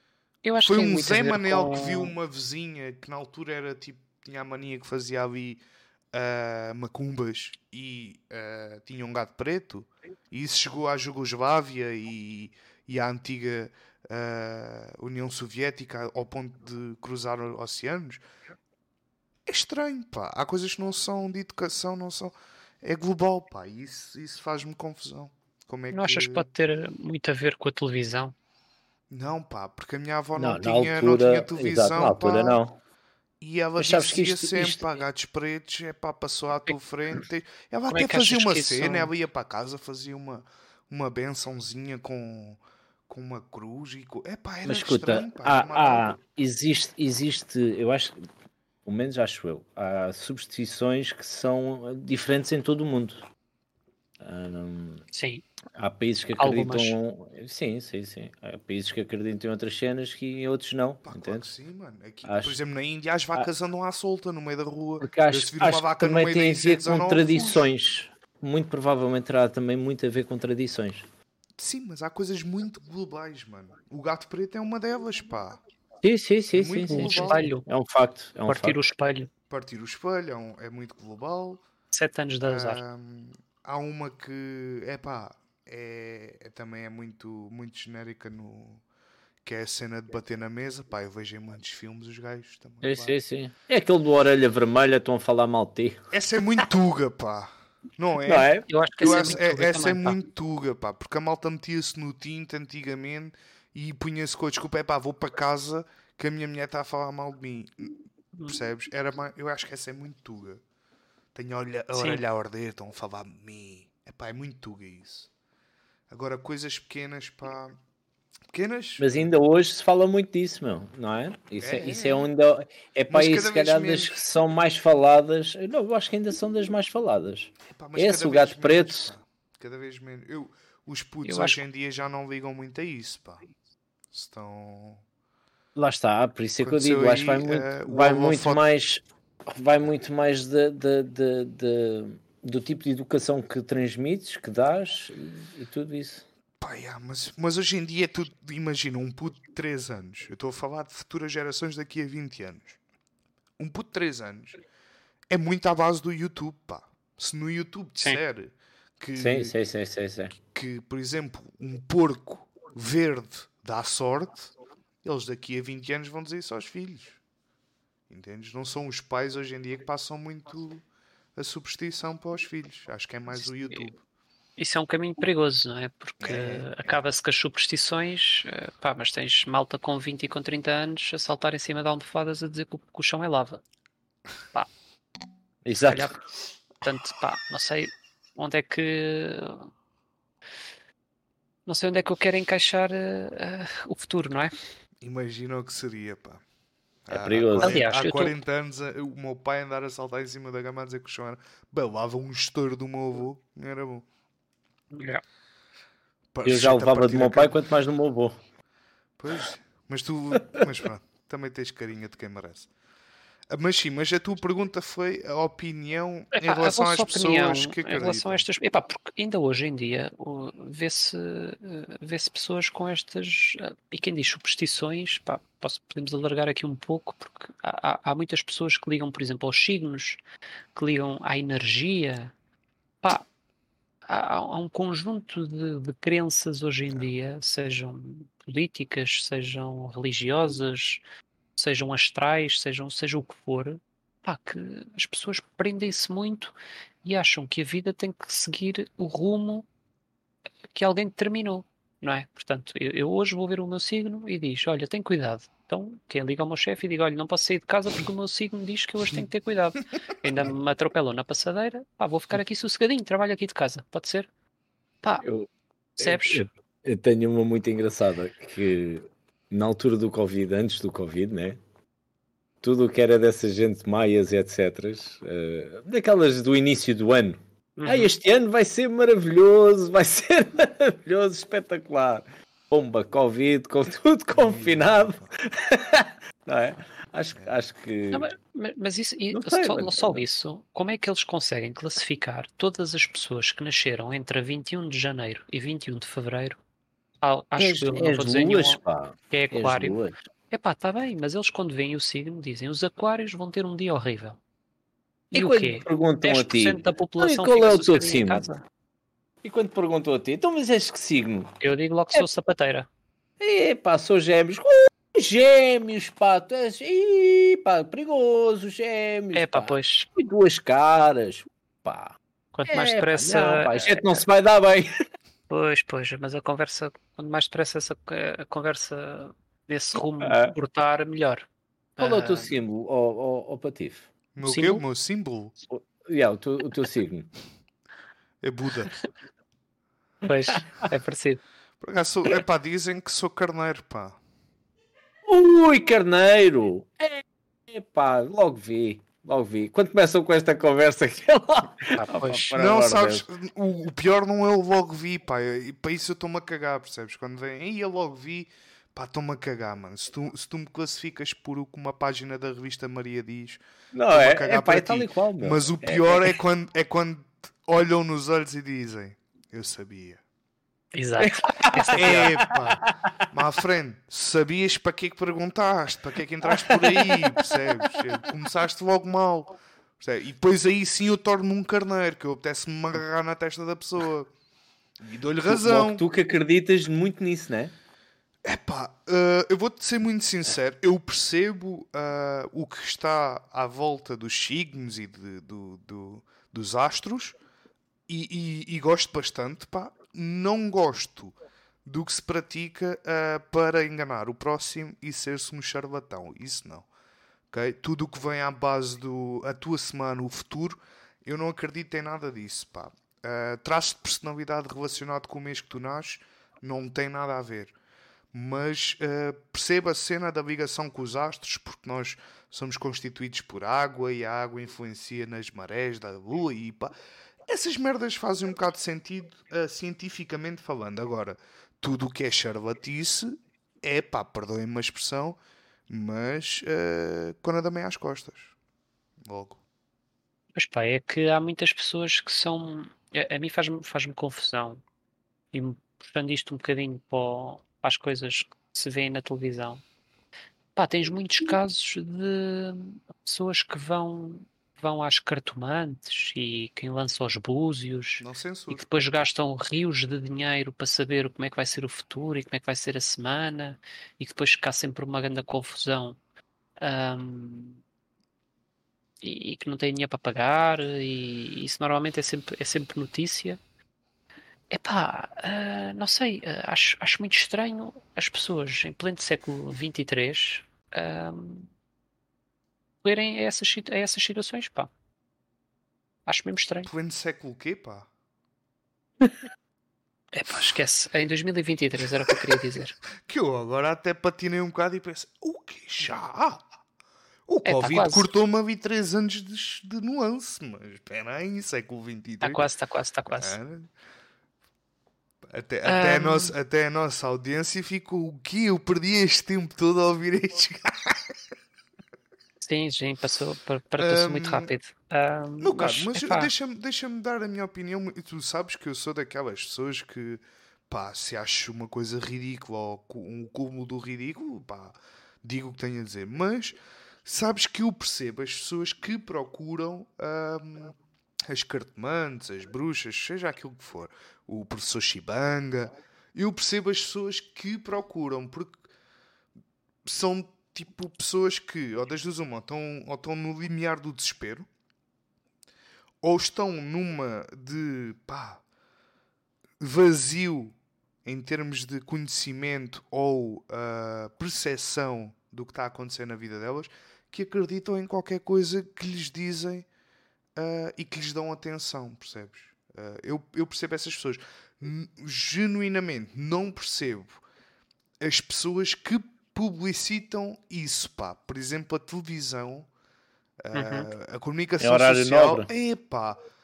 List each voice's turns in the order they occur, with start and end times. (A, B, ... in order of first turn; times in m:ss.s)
0:00.4-0:02.1 A
0:00.6-0:05.6 B
0:06.1-0:18.2 B
0:19.4-0:26.4 B
0:25.9-0:28.3 A
0:29.1-0:32.6 B
0:30.4-0:32.8 C
0:33.4-0:46.2 B
0:33.8-0:34.8 C
0:37.9-0:39.1 A
0:44.6-0:48.3 C
0:48.8-0:53.2 C
0:54.2-0:55.0 C
0:55.1-0:55.4 A
0:55.8-1:01.5 C
0:56.4-0:57.0 A
1:01.0-1:07.7 B
1:02.2-1:02.6 C
1:05.0-1:11.1 C
1:11.6-1:15.6 B
1:16.0-1:18.8 C
1:16.5-1:17.4 B
1:16.9-1:17.6 A
1:18.5-1:19.3 A
1:19.5-1:21.6 B
1:21.9-1:22.8 A
1:22.4-1:28.8 B
1:29.4-1:33.1 B
1:32.8-1:36.1 C
1:36.1-1:47.9 B
1:38.2-1:39.3 C
1:38.7-1:40.2 A
1:48.5-1:50.6 B
1:51.3-1:55.3 B
1:51.9-1:52.2 A
1:56.1-1:57.7 B
1:58.5-1:59.3 B
1:59.0-2:09.1 C
2:01.6-2:02.3 B
2:03.1-2:04.2 B
2:07.7-2:13.4 B
2:11.2-2:11.6 A
2:14.1-2:15.0 B
2:15.7-2:26.2 C
2:16.6-2:18.6 B
2:26.6-2:32.8 B
2:33.6-2:34.6 B
2:35.3-2:39.5 B
2:39.2-2:40.3 C
2:40.4-2:44.5 B
2:45.0-2:47.2 B
2:48.1-2:50.8 B
2:51.4-2:54.0 B
2:54.6-3:03.6 A
2:56.2-2:56.7 B
3:05.6-3:06.2 C
3:05.8-3:06.2 A
3:06.8-3:09.7 A
3:11.6-3:14.5 A
3:15.0-3:16.4 B
3:17.0-3:24.0 B
3:17.1-3:17.8 C
3:17.6-3:18.4 A
3:24.9-3:25.2 A
3:26.3-3:27.6 B
3:26.4-3:28.3 C
3:29.2-3:32.7 B
3:33.5-3:38.4 B
3:36.3-3:50.2 A
3:50.7-3:52.3 A
3:54.1-4:01.0 A
4:01.6-4:09.6 A
4:10.7-4:24.3 A
4:25.2-4:31.6 C
4:26.0-4:26.4 A
4:32.6-4:48.3 C
4:37.8-4:38.1 A
4:44.3-4:45.3 B
4:48.1-4:56.6 A
4:49.3-4:50.2 C
4:57.2-5:00.0 A
4:57.6-5:00.2 C
5:00.5-5:04.4 A
5:05.3-5:08.5 C
5:05.3-5:08.6 A
5:09.4-5:11.6 C
5:11.6-5:12.9 A
5:13.4-5:22.2 C
5:19.3-5:20.1 A
5:22.5-5:24.2 A
5:22.7-5:24.9 C
5:25.5-5:31.4 A
5:30.2-5:30.5 C
5:32.0-5:32.5 A
5:32.0-5:34.1 C
5:34.3-5:35.5 B
5:34.4-5:34.8 A
5:35.7-5:37.3 C
5:38.4-5:38.9 B
5:40.2-5:41.4 A
5:41.8-5:44.2 B
5:45.2-5:53.2 C
5:51.9-5:52.5 A
5:52.5-6:10.2 B
6:03.9-6:06.4 C
6:10.9-6:12.4 A
6:11.2-6:13.1 C
6:12.0-6:24.3 B
6:16.5-6:18.2 C
6:25.0-6:26.0 B
6:25.5-6:27.7 C
6:28.4-6:37.4 B
6:38.1-6:46.9 B
6:47.5-6:57.7 B
6:58.3-7:06.9 B
7:07.4-7:18.5 B
7:19.2-7:19.6 B
7:20.5-7:24.8 A
7:25.5-7:29.8 A
7:30.8-7:46.2 A
7:38.2-7:39.0 B
7:46.8-7:47.8 A
7:49.2-7:53.6 A
7:54.7-8:01.7 A
8:03.0-8:04.9 A
8:06.2-8:06.9 A
8:06.8-8:08.1 B
8:10.3-8:13.0 A
8:13.2-8:16.6 B
8:17.5-8:22.6 B
8:17.6-8:18.3 A
8:22.4-8:23.6 A
8:23.3-8:23.9 B
8:25.4-8:31.3 B
8:25.8-8:26.5 A
8:32.6-8:36.5 A
8:34.0-8:34.7 B
8:35.6-8:50.9 B
8:51.4-8:58.8 B
9:00.0-9:04.7 B
9:06.2-9:08.6 B
9:09.8-9:19.9 B
9:20.6-9:27.4 B
9:28.2-9:32.9 B
9:33.6-9:36.4 B
9:33.7-9:34.1 A
9:34.8-9:35.7 C